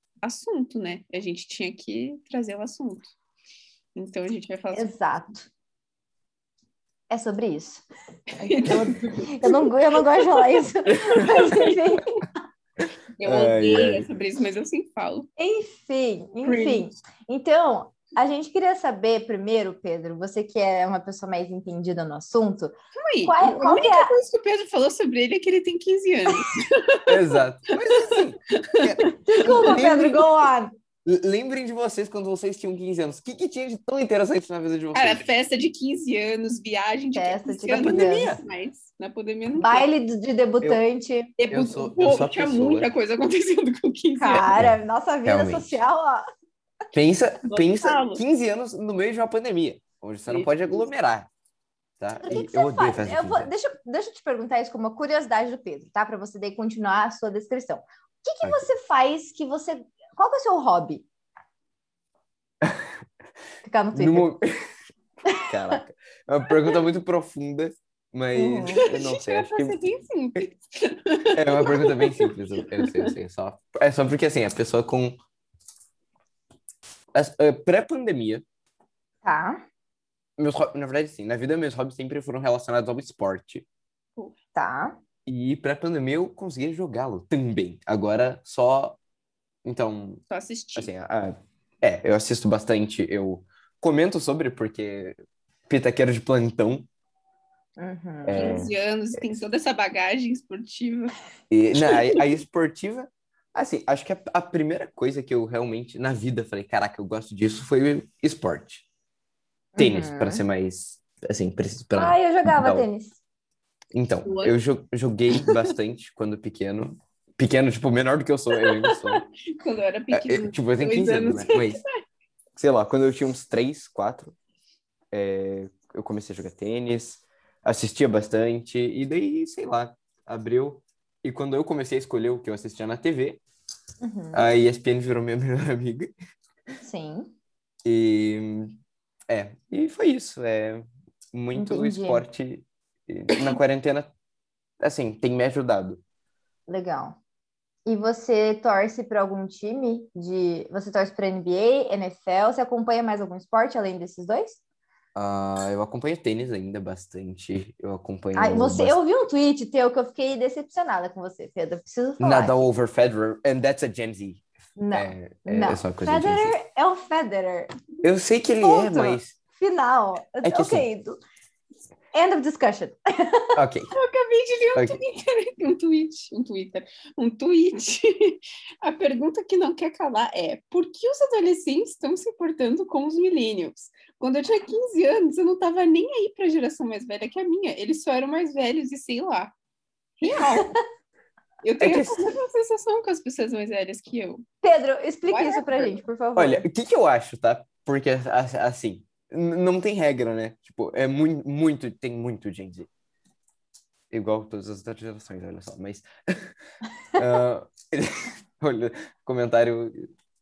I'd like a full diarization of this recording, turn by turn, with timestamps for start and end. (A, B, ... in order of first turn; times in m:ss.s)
0:00.2-0:03.1 A
0:04.0-0:04.9 A
0:04.7-0:05.5 B
0:07.1-0:07.8 B
0:08.4-0:11.8 A
0:08.4-0:12.2 B
0:13.2-0:15.3 A
0:13.2-0:14.2 C
0:15.4-0:22.7 B
0:16.4-0:16.9 A
0:23.0-0:29.7 A
0:23.2-0:24.1 B
0:27.1-0:30.3 C
0:29.3-0:30.7 B
0:31.0-0:35.3 C
0:34.9-0:39.9 A
0:37.2-0:38.3 B
0:37.8-0:38.4 C
0:39.6-0:41.3 B
0:41.4-0:44.6 A
0:41.5-0:42.9 C
0:44.2-0:46.2 B
0:44.5-0:45.8 C
0:46.9-0:51.3 C
0:47.5-0:48.2 A
0:50.3-0:50.8 A
0:52.0-0:53.5 C
0:52.3-1:01.1 B
1:02.6-1:03.0 C
1:03.6-1:04.3 B
1:03.9-1:04.7 C
1:05.3-1:09.8 C
1:08.3-1:08.8 B
1:08.8-1:13.1 A
1:11.3-1:15.2 C
1:17.1-1:18.4 C
1:19.2-1:19.6 B
1:20.4-1:23.6 C
1:24.6-1:25.0 B
1:25.3-1:29.0 C
1:29.6-1:30.2 C
1:30.3-1:30.9 A
1:30.8-1:35.2 C
1:35.7-1:36.9 C
1:37.8-1:38.6 B
1:38.3-1:39.4 C
1:38.4-1:41.1 A
1:41.5-1:48.8 C
1:41.9-1:42.2 A
1:49.8-1:50.4 B
1:49.8-1:52.9 C
1:52.0-1:53.2 B
1:53.9-1:59.2 C
1:54.2-1:54.6 A
1:55.3-1:55.6 A
1:58.6-2:01.9 A
2:00.1-2:01.8 C
2:02.6-2:04.4 C
2:05.1-2:13.4 C
2:14.0-2:14.5 B
2:14.3-2:16.1 C
2:16.8-2:17.3 B
2:17.8-2:18.8 C
2:19.3-2:24.1 C
2:21.5-2:22.3 B
2:24.8-2:26.0 C
2:26.7-2:27.2 B
2:27.9-2:34.6 B
2:35.2-2:39.0 C
2:38.3-2:42.7 B
2:42.2-2:46.5 C
2:44.8-2:47.7 B
2:48.0-2:49.4 C
2:48.6-2:51.2 B
2:50.4-2:50.9 C
2:52.1-2:53.6 B
2:53.6-2:53.9 C
2:53.9-3:09.5 A
2:54.8-2:55.0 C
3:10.2-3:10.8 A
3:11.6-3:14.4 A
3:11.8-3:12.2 C
3:14.6-3:16.6 B
3:15.3-3:16.0 A
3:16.4-3:22.9 C
3:24.1-3:26.5 C
3:27.2-3:30.1 C